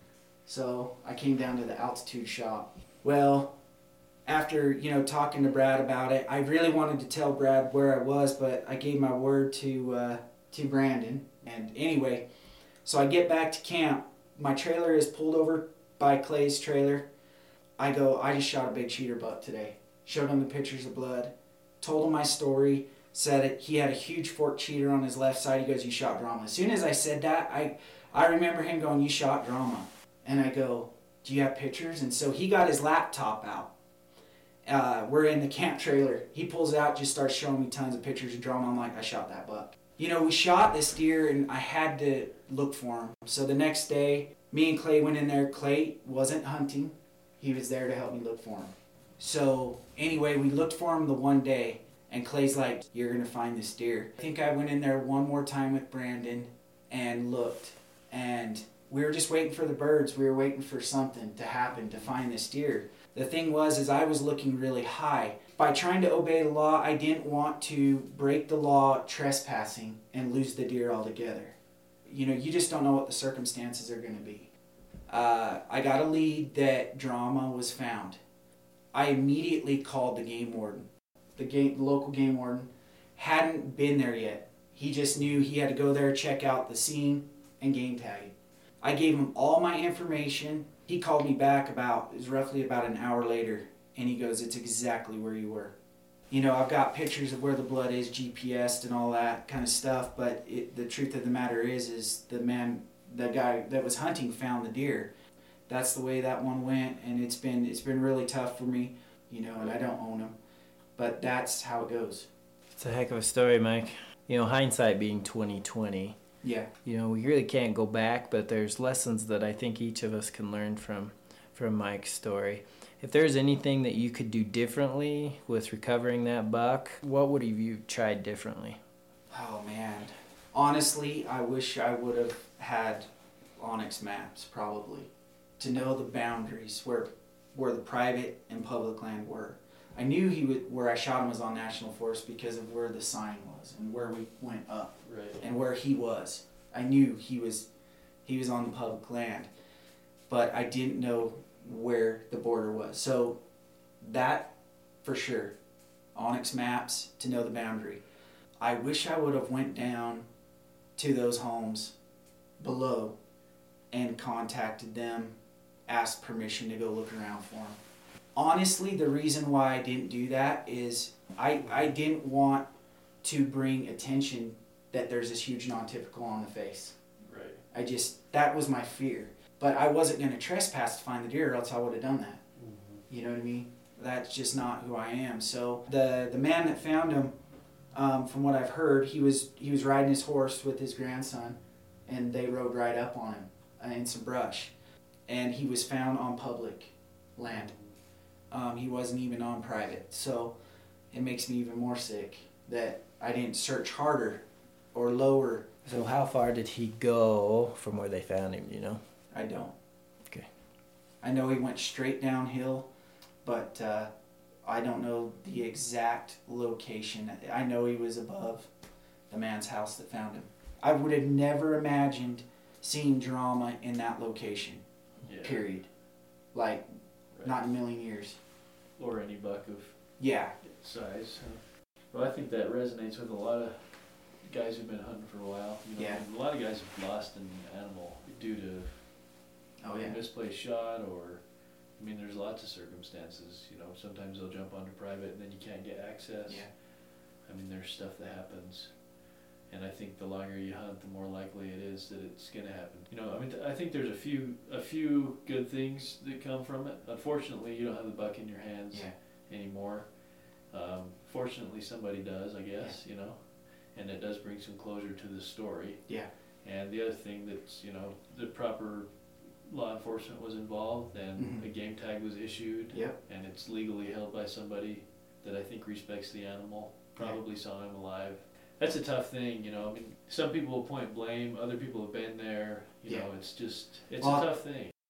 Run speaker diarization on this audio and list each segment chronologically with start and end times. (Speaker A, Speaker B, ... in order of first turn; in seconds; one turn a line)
Speaker A: 0.5-3.6
Speaker A: 4.2-12.3
Speaker A: 12.8-17.1
Speaker A: 17.8-33.7
Speaker A: 34.6-71.5
Speaker A: 72.0-74.5
Speaker A: 75.1-78.2
Speaker A: 78.9-95.8
Speaker A: 96.3-105.1
Speaker A: 105.7-110.3
Speaker A: 111.0-112.3
Speaker B: 112.8-116.2
Speaker A: 116.4-116.7
Speaker B: 116.8-128.8
Speaker A: 129.3-147.7
Speaker C: 145.0-145.4
Speaker A: 148.2-149.5
Speaker A: 150.3-153.4
Speaker A: 154.0-155.6
Speaker A: 156.1-158.0
Speaker A: 158.6-160.3
Speaker A: 160.9-161.9
Speaker A: 162.6-163.2
Speaker A: 163.9-167.8
Speaker A: 168.3-172.7
Speaker A: 173.2-177.0
Speaker C: 177.2-177.6
Speaker A: 177.7-182.4
Speaker C: 182.6-183.0
Speaker A: 183.1-187.3
Speaker A: 187.9-194.7
Speaker A: 195.3-197.7
Speaker C: 197.5-197.9
Speaker A: 198.5-200.6
Speaker A: 201.1-205.7
Speaker B: 205.8-209.0
Speaker A: 209.3-209.7
Speaker A: 211.2-212.9
Speaker A: 213.4-214.1
Speaker A: 214.6-218.7
Speaker A: 219.3-224.8
Speaker C: 225.2-225.7
Speaker A: 225.4-225.9
Speaker A: 226.5-226.8
Speaker C: 227.3-227.6
Speaker A: 227.4-228.4
Speaker C: 229.0-230.0
Speaker A: 230.2-230.6
Speaker C: 230.6-233.9
Speaker C: 234.4-239.1
Speaker A: 235.9-236.2
Speaker A: 239.8-240.2
Speaker C: 239.9-241.4
Speaker C: 242.0-246.7
Speaker C: 247.4-248.9
Speaker C: 249.7-260.1
Speaker C: 260.7-266.1
Speaker C: 266.6-269.1
Speaker C: 269.6-284.9
Speaker A: 271.4-271.6
Speaker A: 284.2-284.4